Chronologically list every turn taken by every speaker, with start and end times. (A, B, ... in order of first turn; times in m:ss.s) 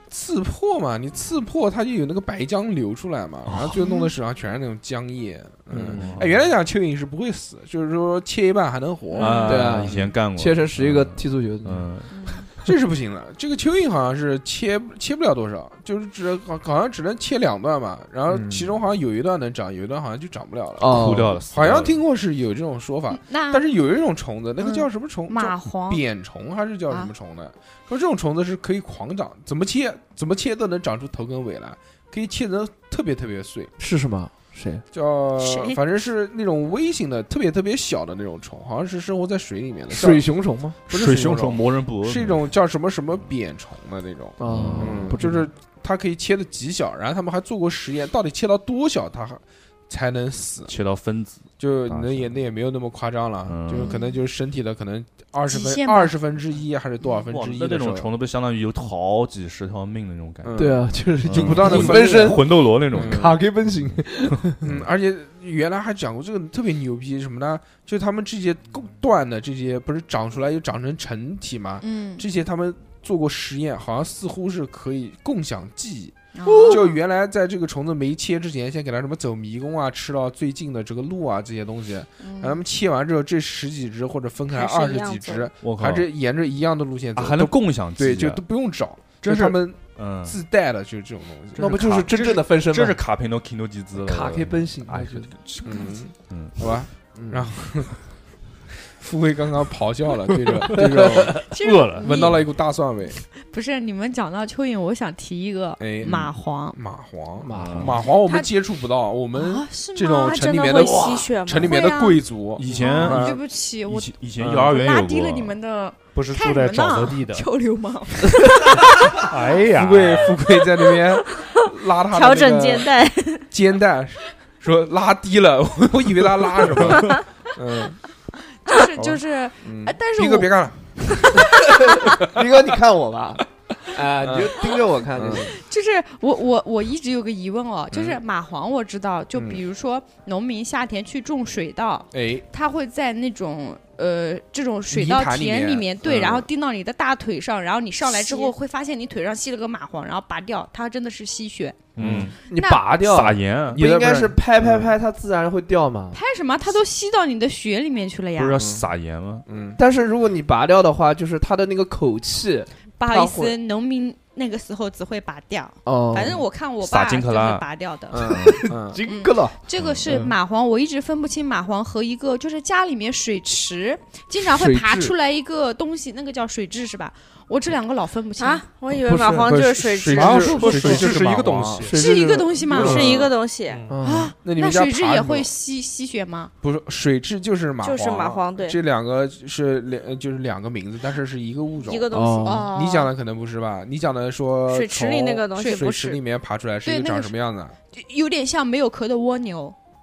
0:00.1-0:10.1 A
0:03.8-0:04.1 B
0:05.7-0:06.1 C
0:05.9-0:06.5 D
0:09.1-0:09.6 B
0:09.2-0:12.2 D
0:09.4-0:11.9 C
0:12.2-0:12.5 B
0:12.6-0:33.7 A
0:18.3-0:18.7 C
0:20.8-0:21.4 C
0:20.8-0:22.0 D
0:23.1-0:23.6 B
0:24.6-0:26.0 B
0:33.8-0:34.8 C
0:34.9-0:40.2 A
0:35.4-0:35.8 B
0:39.9-0:40.8 C
0:40.9-0:50.7 A
0:40.9-0:42.4 D
0:44.4-0:45.4 C
0:44.5-0:45.2 D
0:50.7-0:52.4 D
0:51.6-0:58.1 A
0:53.5-0:53.9 D
0:53.7-0:54.2 B
0:55.5-0:56.1 B
0:57.3-1:00.6 D
1:00.4-1:03.4 A
1:00.5-1:04.6 C
1:01.2-1:03.4 D
1:04.6-1:32.1 A
1:11.8-1:12.2 B
1:16.3-1:17.0 B
1:16.4-1:16.8 C
1:22.2-1:22.6 B
1:24.5-1:25.5 E
1:25.6-1:26.0 D
1:27.2-1:28.4 D
1:29.2-1:30.4 D
1:31.6-1:33.0 C
1:31.6-1:36.7 D
1:34.0-1:35.3 C
1:35.6-1:38.0 A
1:35.7-1:35.9 B
1:37.1-1:37.5 C
1:38.9-1:43.2 A
1:40.7-1:41.3 C
1:41.4-1:42.5 B
1:41.6-1:42.1 F
1:43.4-1:46.8 B
1:45.8-1:53.4 A
1:47.4-1:47.9 C
1:47.6-1:48.0 D
1:49.3-1:51.0 B
1:50.1-1:51.8 E
1:51.5-1:59.1 B
1:52.6-1:55.6 D
1:54.4-1:54.8 A
1:56.1-1:57.5 F
1:59.3-2:00.4 F
1:59.7-2:02.9 A
2:02.1-2:03.4 E
2:03.5-2:08.0 A
2:08.6-2:10.5 B
2:09.0-2:12.4 A
2:11.1-2:11.7 B
2:11.4-2:15.5 C
2:13.9-2:15.5 A
2:15.5-2:31.9 B
2:17.9-2:18.2 A
2:19.3-2:19.6 A
2:22.1-2:22.4 A
2:24.9-2:26.5 A
2:28.2-2:28.5 E
2:32.0-2:32.4 D
2:32.0-2:32.4 A
2:32.5-2:36.2 C
2:32.5-2:32.9 B
2:33.0-2:33.8 D
2:33.7-2:34.9 A
2:36.1-2:38.6 B
2:38.3-2:39.4 D
2:38.6-2:38.8 A
2:39.4-2:39.8 A
2:39.8-2:43.6 C
2:43.0-2:48.4 B
2:45.8-2:46.4 C
2:46.8-2:47.6 D
2:48.1-2:49.0 A
2:48.2-2:48.6 D
2:48.3-2:49.6 C
2:49.0-2:58.7 B
2:49.8-2:50.2 D
2:54.4-2:55.1 C
2:58.4-3:00.7 E
2:59.0-2:59.5 C
2:59.4-3:01.8 A
3:00.1-3:02.0 F
3:00.2-3:03.2 C
3:01.9-3:03.2 B
3:02.7-3:03.3 A
3:02.7-3:03.8 E
3:03.7-3:04.0 F
3:03.9-3:04.3 C
3:04.0-3:06.5 B
3:04.4-3:05.5 A
3:06.6-3:12.1 A
3:07.8-3:08.8 E
3:11.8-3:12.7 E
3:12.1-3:12.7 C
3:12.4-3:13.1 B
3:12.7-3:17.8 A
3:14.7-3:16.2 E
3:15.6-3:15.9 B
3:16.8-3:17.3 B
3:17.9-3:19.7 B